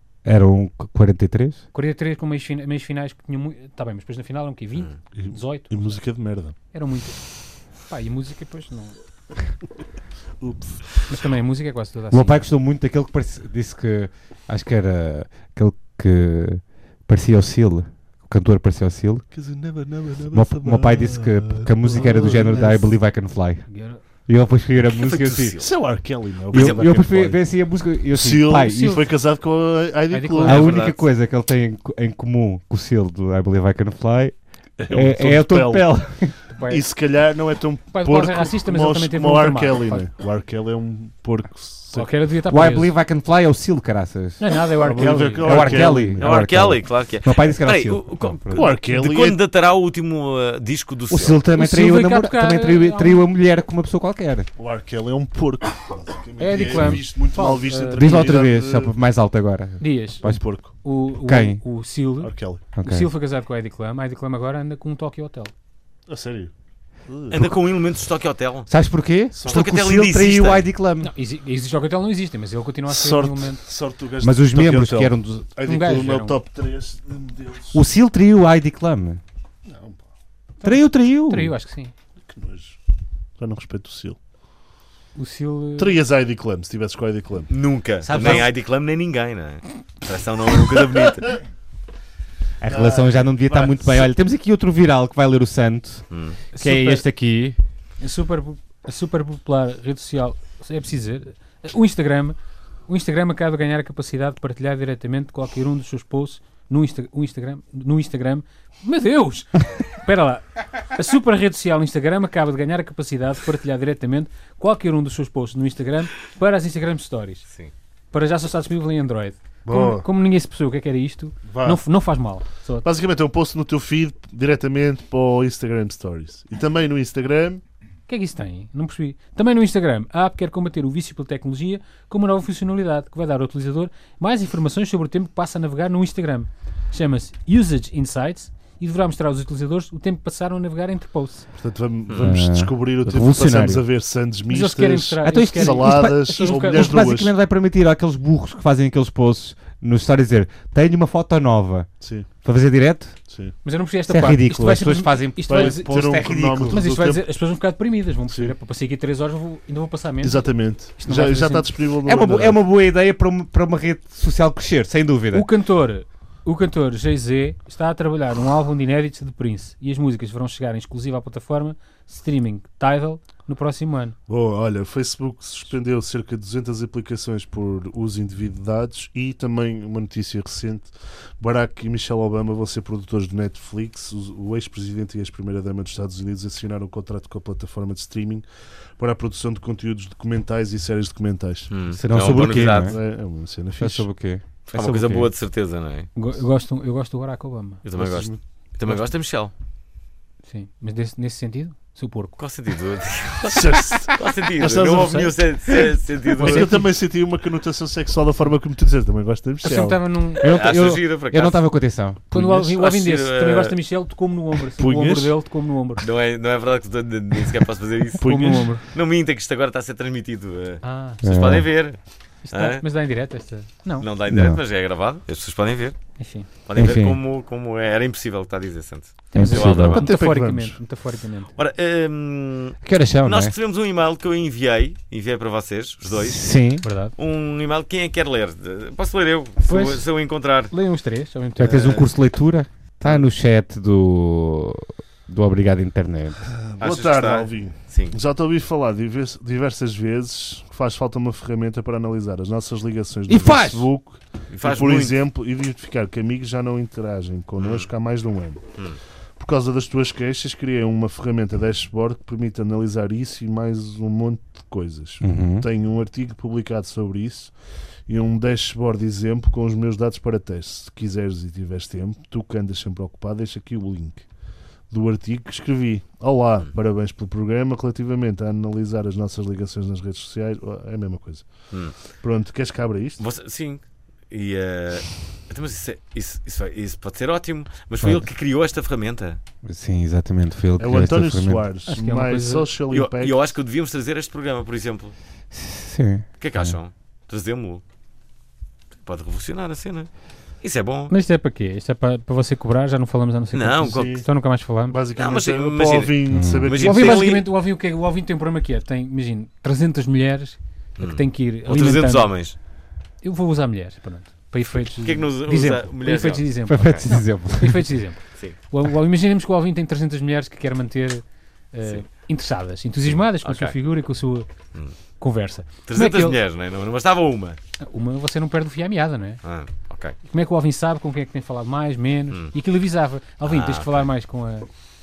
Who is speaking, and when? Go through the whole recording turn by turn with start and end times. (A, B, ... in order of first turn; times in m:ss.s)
0:00.2-0:01.6 A
0:01.7-0:06.0 B
0:05.1-0:06.6 C
0:06.7-0:09.0 B
0:10.4-0:10.9 C
0:11.1-0:12.4 B
0:12.1-0:19.3 A
0:19.3-0:23.0 C
0:20.3-0:25.6 A
0:22.0-0:22.4 B
0:23.7-0:24.0 B
0:25.0-0:25.7 D
0:25.6-0:27.6 C
0:26.5-0:27.0 D
0:26.5-0:29.1 A
0:28.1-0:30.8 C
0:30.1-0:30.6 B
0:30.4-0:34.4 A
0:30.5-0:31.0 D
0:34.8-0:36.0 C
0:34.9-0:36.3 A
0:36.5-0:36.8 B
0:36.6-0:42.1 C
0:37.9-0:40.0 B
0:41.9-0:42.9 B
0:42.4-0:44.4 A
0:44.4-0:46.0 B
0:44.8-0:46.3 C
0:45.0-0:48.7 A
0:46.2-0:51.4 D
0:48.5-0:49.4 C
0:51.1-0:54.5 A
0:51.6-0:53.3 B
0:54.6-0:58.9 C
0:56.4-0:58.3 B
0:56.7-0:57.0 A
0:58.0-1:00.4 A
0:59.8-1:05.5 B
1:00.2-1:00.7 C
1:01.2-1:01.6 A
1:02.2-1:02.6 C
1:02.8-1:03.1 A
1:06.1-1:06.5 C
1:07.1-1:07.4 C
1:07.3-1:08.7 D
1:08.7-1:11.1 A
1:09.3-1:09.7 C
1:09.4-1:10.7 D
1:11.0-1:13.6 B
1:12.9-1:17.8 C
1:14.2-1:15.5 A
1:15.6-1:16.4 B
1:17.7-1:19.2 A
1:19.6-1:20.1 C
1:20.6-1:21.9 B
1:20.6-1:21.5 A
1:22.2-1:22.8 C
1:23.4-1:24.2 C
1:25.1-1:26.0 B
1:25.8-1:27.5 C
1:27.5-1:31.4 D
1:28.0-1:28.5 A
1:32.6-1:37.6 A
1:32.7-1:34.0 C
1:36.1-1:36.4 D
1:36.5-1:37.0 B
1:38.0-1:42.4 B
1:42.9-1:57.4 B
1:58.1-2:02.8 B
1:59.6-2:00.0 C
2:01.4-2:01.8 C
2:02.8-2:07.6 C
2:08.1-2:21.5 B
2:21.5-2:27.3 C
2:22.1-2:22.3 D
2:22.2-2:23.8 A
2:24.5-2:27.0 B
2:25.2-2:33.2 A
2:32.0-2:32.3 C
2:33.3-2:33.5 C
2:33.6-2:41.7 B
2:34.1-2:36.8 A
2:35.5-2:37.2 C
2:38.3-2:38.5 C
2:40.2-2:42.6 C
2:42.0-2:45.5 A
2:45.3-2:54.2 B
2:54.3-3:08.4 C
3:09.0-3:14.1 C
3:11.7-3:12.9 D
3:11.9-3:13.0 A
3:13.8-3:15.3 A
3:14.7-3:16.1 D
3:16.1-3:17.8 B
3:17.8-3:19.5 D
3:18.0-3:19.0 C
3:20.5-3:22.4 B
3:22.4-3:26.8 D
3:23.5-3:25.8 C
3:26.4-3:30.0 C
3:26.4-3:26.9 B
3:29.6-3:30.5 B
3:30.4-3:32.2 A
3:30.4-3:31.6 D
3:32.3-3:36.0 B
3:32.3-3:32.7 C
3:32.8-3:33.7 D
3:34.8-3:35.3 C
3:36.0-3:38.2 D
3:38.2-3:38.7 C
3:38.2-3:38.8 B
3:38.9-3:42.0 D
3:40.8-3:41.2 B
3:41.2-3:41.7 A
3:42.4-3:44.1 B
3:42.5-3:42.8 D
3:44.0-3:50.0 D
3:44.3-3:44.6 A
3:46.2-3:46.5 B
3:46.8-3:47.2 A
3:49.3-3:51.5 B
3:49.3-3:50.0 A
3:49.9-3:50.8 C
3:51.6-3:56.5 D
3:52.8-3:53.5 A
3:56.1-3:56.8 A
3:56.8-3:57.1 B
3:57.2-4:00.7 D
3:59.6-4:00.0 B
4:00.7-4:01.9 B
4:01.6-4:06.4 A
4:01.6-4:02.1 D
4:06.5-4:18.6 C
4:06.8-4:08.2 D
4:13.3-4:13.9 A
4:14.5-4:15.2 D
4:17.6-4:17.9 D
4:19.4-4:27.5 C
4:25.2-4:25.6 A
4:28.1-4:34.2 C
4:34.9-4:43.2 C
4:43.2-4:49.4 D
4:48.0-4:48.3 A
4:49.6-4:51.7 A
4:50.8-4:53.5 C
4:51.9-4:52.7 B
4:52.9-4:55.1 D
4:55.5-4:56.8 A
4:56.4-4:57.8 D
4:59.0-5:00.1 D
5:00.6-5:01.1 D
5:01.1-5:05.0 B
5:03.5-5:04.2 D
5:03.8-5:04.2 C
5:04.9-5:07.3 C
5:05.2-5:07.4 D
5:06.3-5:06.7 A
5:06.8-5:12.3 B
5:11.0-5:12.6 D
5:13.2-5:24.5 B
5:15.0-5:17.0 D
5:16.7-5:17.8 A
5:23.4-5:23.7 D
5:25.2-5:26.4 B
5:25.9-5:27.6 D
5:27.8-5:29.4 B
5:29.4-5:30.2 D
5:30.2-5:34.7 B
5:33.4-5:34.0 D